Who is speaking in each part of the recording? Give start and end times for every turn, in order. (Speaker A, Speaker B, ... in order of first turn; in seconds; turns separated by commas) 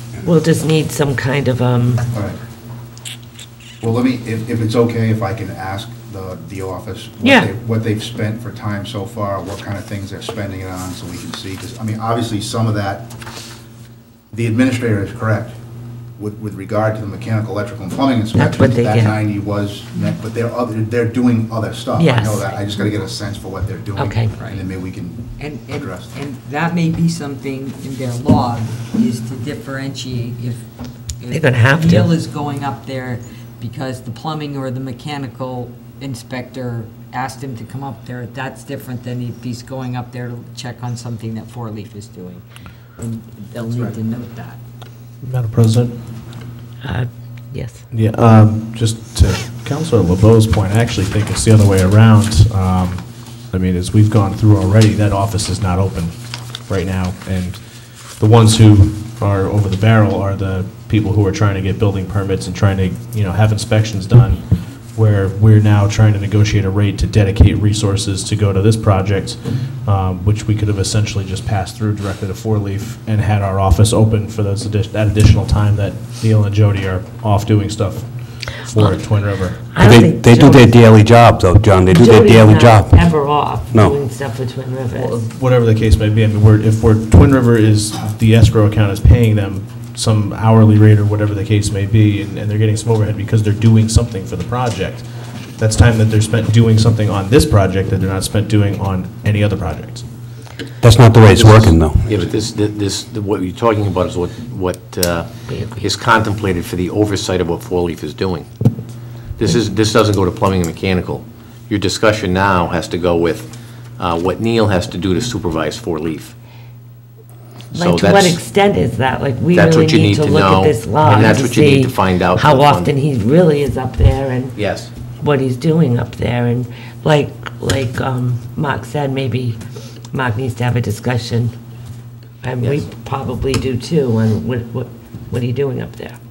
Speaker A: 0.2-2.0, Speaker B: 3.8-13.1, Speaker B: 14.3-15.5, Speaker B: 16.2-26.2, Speaker A: 18.3-19.2, Speaker A: 21.9-22.5, Speaker A: 24.0-24.3, Speaker C: 24.3-24.7, Speaker C: 25.4-30.6, Speaker C: 31.2-42.4, Speaker A: 31.3-32.1, Speaker C: 43.0-44.6, Speaker B: 43.7-43.9, Speaker D: 45.2-46.0, Speaker A: 46.8-47.8, Speaker D: 47.9-79.6, Speaker A: 79.6-80.7, Speaker E: 79.8-83.0, Speaker A: 81.9-85.2, Speaker D: 84.9-100.0, Speaker E: 100.8-102.2, Speaker F: 101.3-108.5, Speaker A: 105.5-105.8, Speaker F: 109.4-116.3, Speaker F: 117.7-118.4, Speaker A: 117.7-124.5, Speaker F: 119.5-122.9, Speaker F: 124.5-124.9, Speaker A: 125.2-129.6, Speaker A: 130.1-131.5, Speaker A: 132.4-136.2